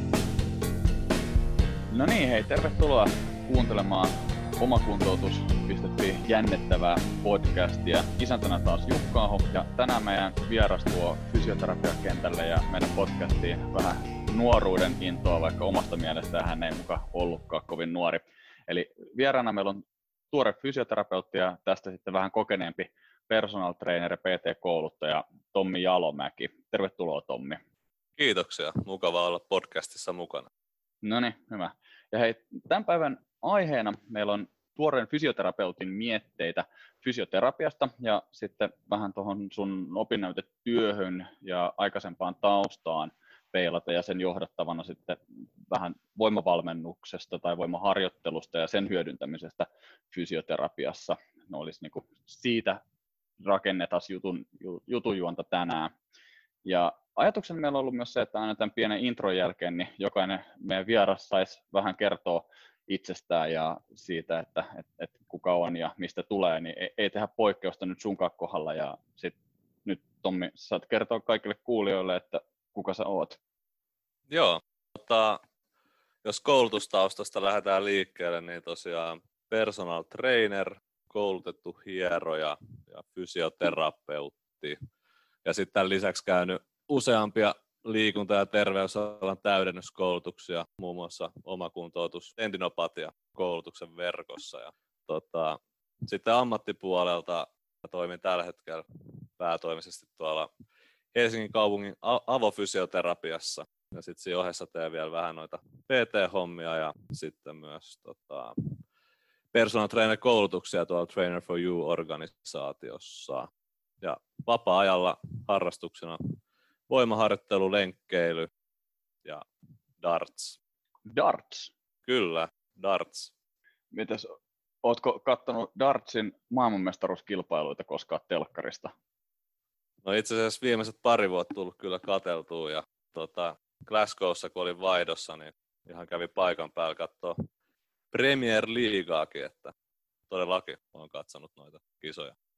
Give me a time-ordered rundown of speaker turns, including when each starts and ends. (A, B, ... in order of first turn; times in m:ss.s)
0:01.9-0:27.6 A
0:28.2-0:30.5 B
0:31.0-0:52.8 A
0:53.4-0:56.0 A
0:56.6-1:13.4 A
1:14.3-1:15.4 B
1:16.2-1:24.8 B
1:25.4-1:38.8 B
1:39.4-1:40.5 B
1:41.1-1:48.8 B
1:49.5-1:53.5 B
1:54.0-1:56.2 B
1:56.9-1:58.5 B
2:00.0-2:00.6 B
2:01.1-2:01.7 A
2:02.0-2:03.3 B
2:03.9-2:08.9 A
2:10.0-2:17.4 B
2:18.1-2:19.7 B
2:20.3-2:22.4 B